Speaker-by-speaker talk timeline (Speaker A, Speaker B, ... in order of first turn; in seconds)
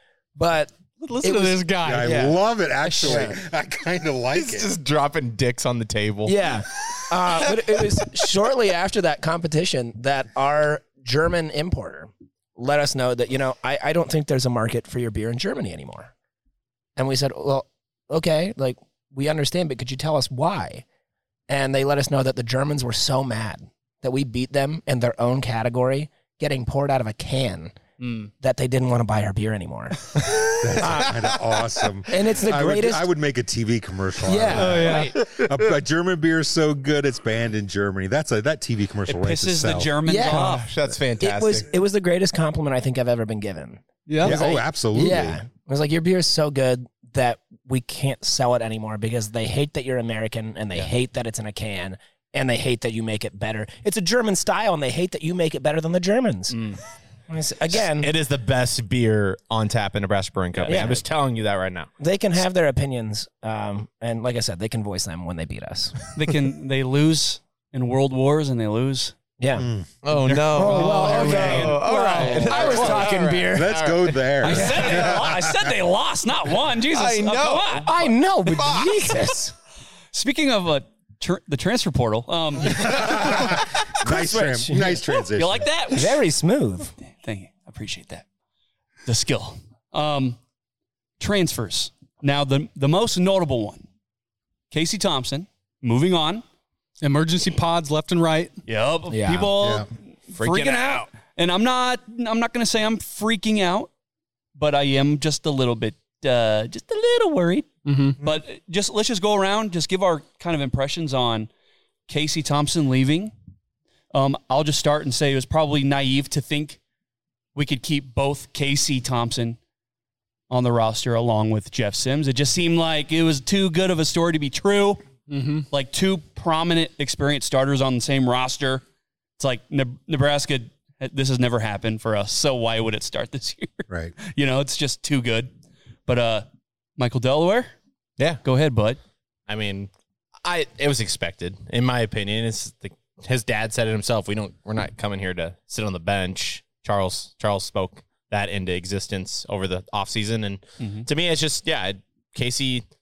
Speaker A: 0.4-2.4, 2.9-3.4, 6.2-16.1, 17.0-20.9, 21.5-27.8, 28.4-31.2, 32.1-33.1, 34.2-35.1, 40.0-40.6, 41.2-56.6, 57.3-58.1, 60.7-61.1, 62.0-66.1, 69.4-69.7, 70.3-73.8, 74.5-74.8, 77.8-79.5, 82.8-85.1, 85.9-86.9, 99.1-99.6
Speaker B: 1.0-2.3, 34.6-35.1, 44.1-44.4, 97.0-98.5, 107.8-108.2, 125.3-125.7
Speaker C: 1.8-4.7, 30.6-40.0, 44.2-45.4, 69.6-70.0, 73.5-75.7, 82.7-85.7, 99.6-99.9, 133.9-134.1
Speaker D: 4.3-6.3, 30.3-30.5, 35.2-35.6, 40.2-41.7, 56.5-56.8, 57.7-61.9, 70.0-75.1, 76.9-79.1, 100.3-101.1, 139.5-139.9, 140.4-152.8
Speaker E: 34.9-35.1, 39.1-40.7, 60.5-60.9, 66.2-69.1, 70.6-73.1, 74.4-77.9, 80.1-82.8, 85.3-86.2, 87.2-88.2, 89.1-90.4, 91.2-93.9, 94.7-96.4, 98.7-103.9, 104.5-111.5, 112.1-113.3, 114.1-116.8, 117.5-119.6, 120.5-125.0, 125.7-128.8, 129.4-135.5, 136.1-136.5, 137.0-137.7, 138.4-139.0, 150.8-151.1